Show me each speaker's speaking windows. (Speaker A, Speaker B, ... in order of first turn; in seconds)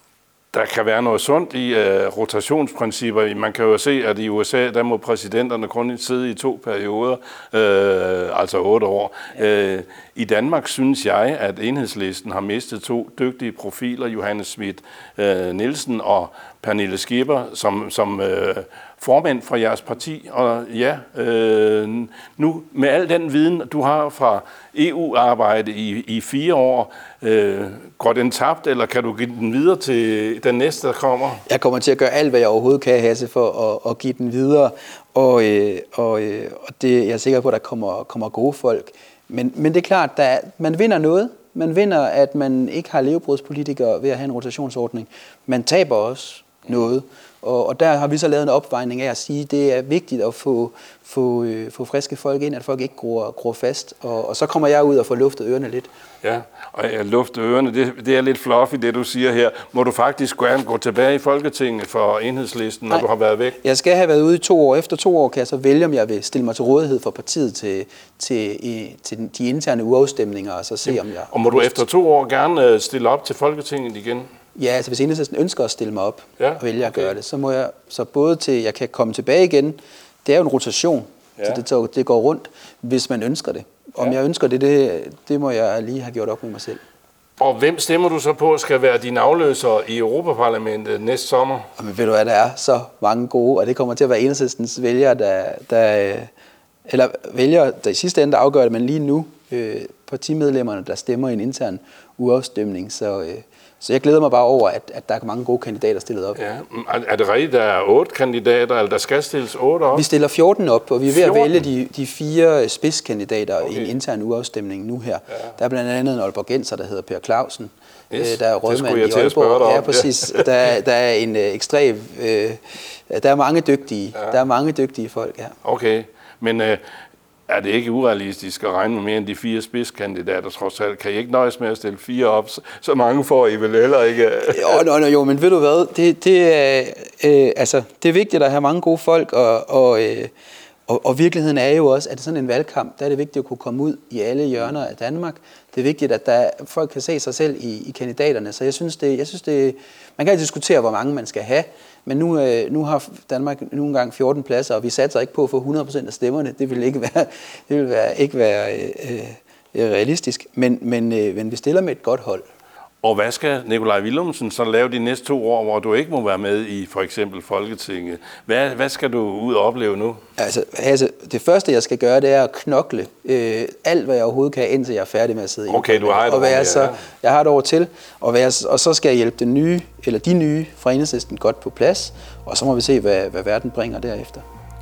Speaker A: 0.5-31.4, 56.2-63.6, 70.8-74.3, 76.4-77.1, 87.4-91.7, 106.3-110.0, 111.1-111.6, 118.1-120.5, 125.6-126.8, 127.5-134.8, 163.0-170.2, 175.7-177.0
Speaker B: 31.4-55.9, 63.6-71.8, 74.5-86.8, 91.8-96.3, 96.8-106.4, 109.9-125.5, 134.5-140.3, 140.9-162.4, 170.4-184.4